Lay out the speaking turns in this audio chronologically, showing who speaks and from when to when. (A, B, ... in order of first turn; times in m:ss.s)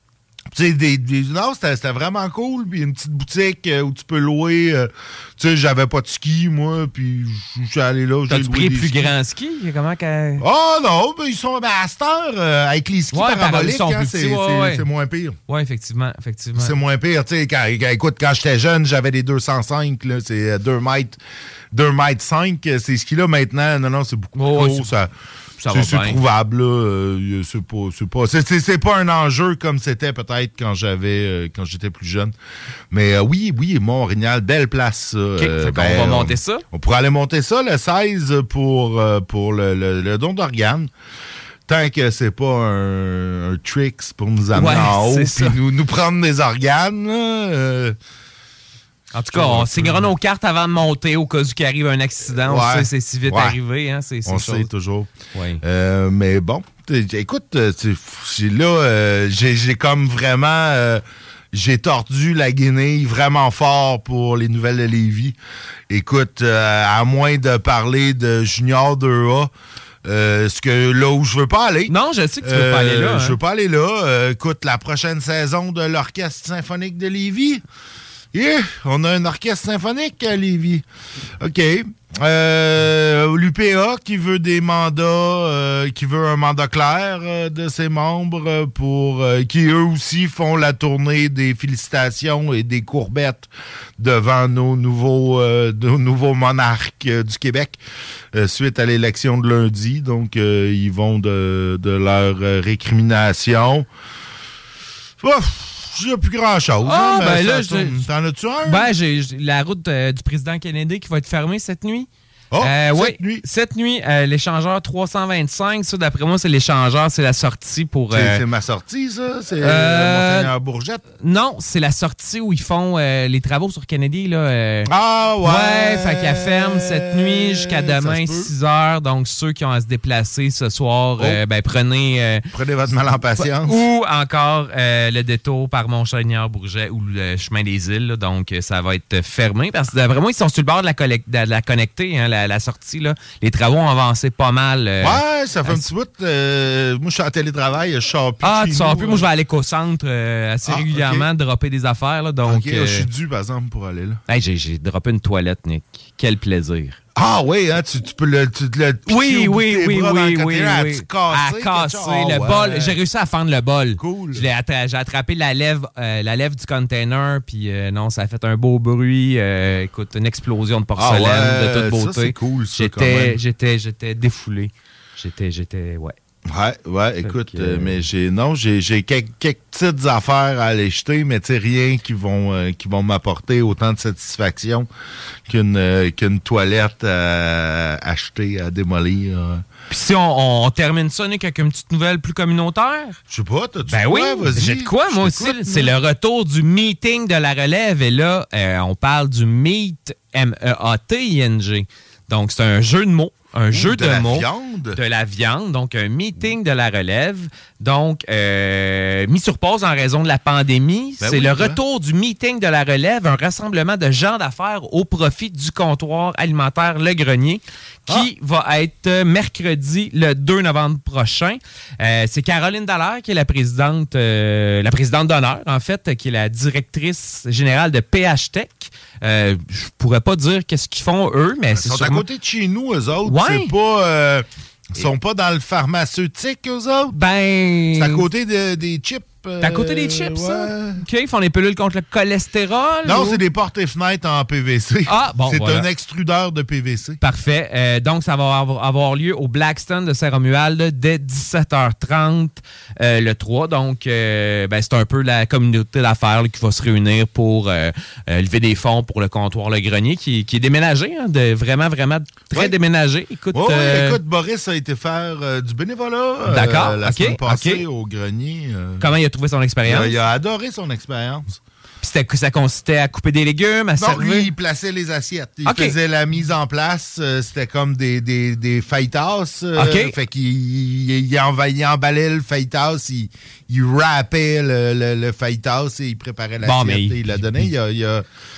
0:00.5-0:09.1 A
0:08.3-0:10.4 B
0:10.4-0:15.4 A
0:13.1-0:14.8 B
0:15.5-0:16.8 B
0:16.6-0:21.2 A
0:21.7-0:25.1 A
0:24.4-0:24.9 B
0:25.6-0:26.2 B
0:25.7-0:32.3 A
0:32.9-0:40.9 A
0:35.4-0:36.6 B
0:41.7-0:48.0 A
0:44.5-0:45.6 B
0:49.1-0:54.7 B
0:49.3-0:50.1 A
0:52.4-0:53.6 A
0:54.2-0:55.1 A
0:55.3-0:55.6 B
0:55.6-1:05.4 A
1:05.9-1:09.5 A
1:10.0-1:17.6 A
1:11.9-1:13.4 B
1:18.3-1:20.8 A
1:21.4-1:37.8 A
1:38.3-1:43.9 A
1:45.2-1:48.9 A
1:46.8-1:48.0 B
1:48.6-1:52.1 B
1:52.5-1:53.4 A
1:52.6-1:58.4 B
1:58.1-2:01.0 A
1:59.6-2:00.5 B
2:01.2-2:04.9 B
2:04.9-2:08.5 A
2:05.4-2:12.4 B
2:12.5-2:13.8 A
2:13.3-2:25.8 B
2:25.0-2:29.3 A
2:28.4-2:33.1 B
2:30.6-2:31.2 A
2:32.4-2:34.2 A
2:34.3-2:37.0 B
2:37.2-2:43.0 A
2:39.1-2:56.1 B
2:44.0-2:44.4 A
2:51.0-2:53.4 A
2:56.4-3:04.9 A
2:57.2-2:58.0 B
3:05.5-3:09.6 A
3:09.9-3:13.2 B
3:13.3-3:15.9 A
3:13.9-3:52.2 B
3:23.7-3:25.0 A
3:31.2-3:31.8 A
3:51.7-3:57.2 A
3:53.2-3:53.7 B
3:57.1-3:58.2 B
3:57.9-4:01.0 A
3:59.6-4:03.4 B
4:03.0-4:07.2 A
4:05.1-4:05.9 B
4:07.2-4:24.2 B
4:23.5-4:29.1 A
4:26.5-4:27.8 B
4:29.0-4:30.1 B
4:29.8-4:31.6 A
4:32.0-4:34.5 B
4:34.0-4:48.2 A
4:35.6-4:35.9 B
4:39.8-4:40.1 B
4:46.6-4:47.7 B